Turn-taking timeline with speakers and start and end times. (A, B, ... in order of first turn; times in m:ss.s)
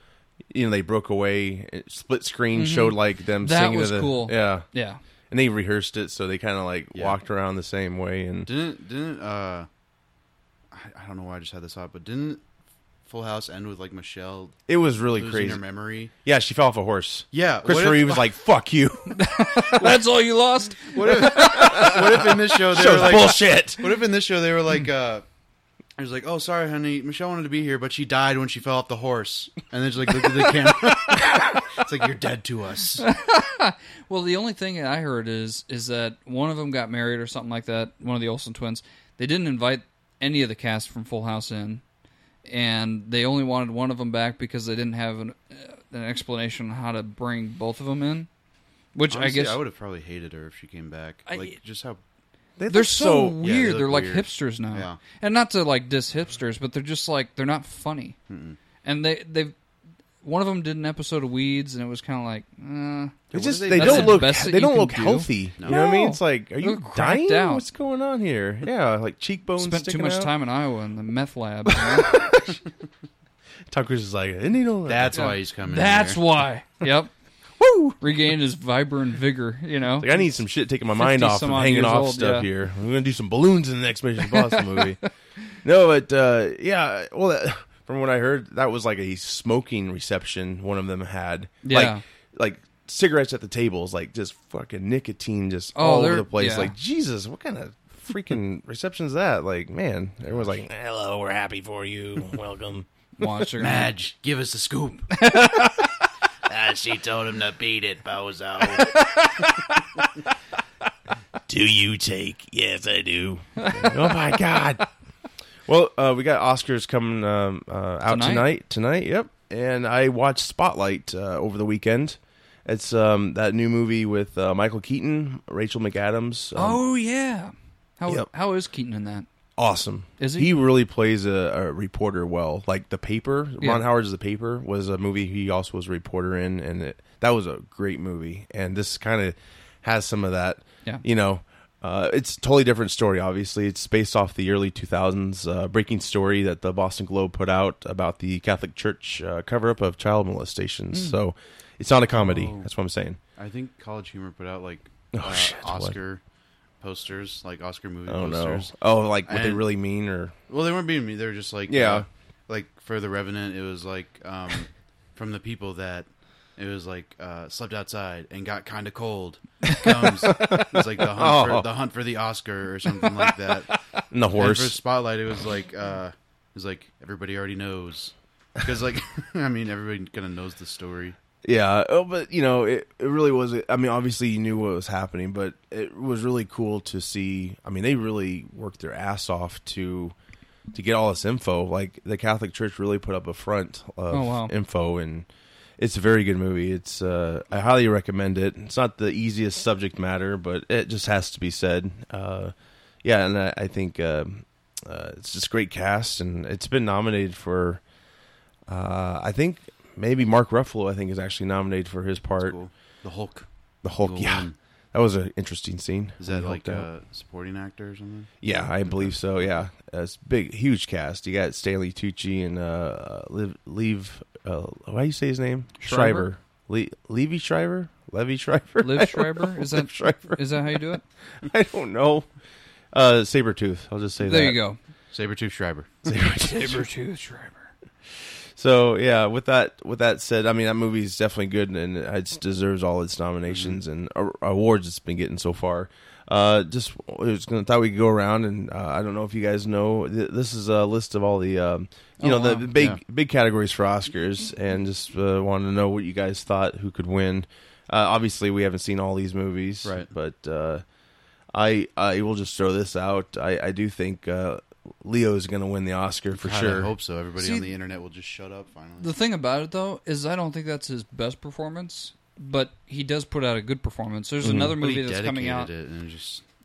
0:00.5-0:04.6 A
0:02.5-0:05.0 B
0:05.3-0:08.5 A
0:08.4-0:09.7 C
0:10.7-0:12.4 C
0:13.0-0:14.6 C
0:14.7-0:15.6 A
0:15.1-0:16.1 C
0:16.2-0:19.3 A
0:17.3-0:18.3 C
0:19.1-0:22.1 B
0:20.9-0:25.2 C
0:21.2-0:23.8 A
0:26.0-0:33.0 C
0:33.0-0:41.8 B
0:42.4-0:48.3 B
0:48.9-0:49.6 B
0:49.1-0:52.0 C
0:51.3-0:51.6 B
0:52.6-0:53.4 A
0:52.7-0:58.2 B
0:53.4-0:55.0 C
0:58.3-0:58.6 C
0:58.8-0:59.5 B
1:00.2-1:03.2 B
1:03.3-1:04.3 C
1:03.3-1:10.3 A
1:03.7-1:07.6 B
1:09.6-1:12.2 B
1:11.7-1:12.6 A
1:13.7-1:15.2 A
1:14.8-1:16.2 C
1:15.1-1:17.1 B
1:17.6-1:18.0 A
1:18.0-1:20.3 B
1:20.0-1:25.0 A
1:20.9-1:22.5 B
1:24.2-1:25.1 B
1:25.6-1:42.8 A
1:31.6-1:32.0 B
1:35.7-1:36.7 B
1:43.2-1:43.9 B
1:43.6-1:45.1 C
1:45.1-1:46.0 B
1:46.5-1:49.0 C
1:48.8-1:50.0 B
1:51.5-1:54.8 A
1:53.6-1:54.3 B
1:55.7-2:06.8 A
1:58.0-1:58.5 B
2:06.5-2:09.2 B
2:09.6-2:33.2 A
2:10.2-2:10.5 B
2:32.1-2:32.7 C
2:33.4-2:36.2 C
2:35.1-2:35.9 A
2:36.8-2:39.6 C
2:38.1-2:40.3 A
2:40.5-2:53.7 C
2:41.7-2:42.0 A
2:50.0-2:51.7 A
2:54.1-2:54.8 A
2:54.3-3:01.2 C
3:01.4-3:10.1 A
3:10.7-3:15.3 A
3:14.1-3:14.5 B
3:15.8-3:22.5 A
3:23.0-3:27.8 A
3:28.7-3:32.6 A
3:32.4-3:33.5 C
3:33.8-3:36.9 A
3:34.0-3:34.6 C
3:36.2-3:39.2 C
3:38.4-3:50.8 A
3:45.8-3:46.3 B
3:48.8-3:51.0 B
3:51.4-3:52.3 A
3:52.9-3:54.6 A
3:54.2-3:54.8 B
3:55.1-3:56.1 C
3:56.0-3:56.8 A
3:56.4-3:57.7 B
3:58.6-4:20.8 A
4:03.5-4:03.8 C
4:12.2-4:12.7 B
4:12.7-4:13.0 C
4:19.8-4:20.1 C
4:21.5-4:26.9 A
4:26.3-4:29.1 C
4:27.4-4:27.7 B
4:29.0-4:35.7 B
4:34.4-4:34.7 A
4:34.6-4:36.4 C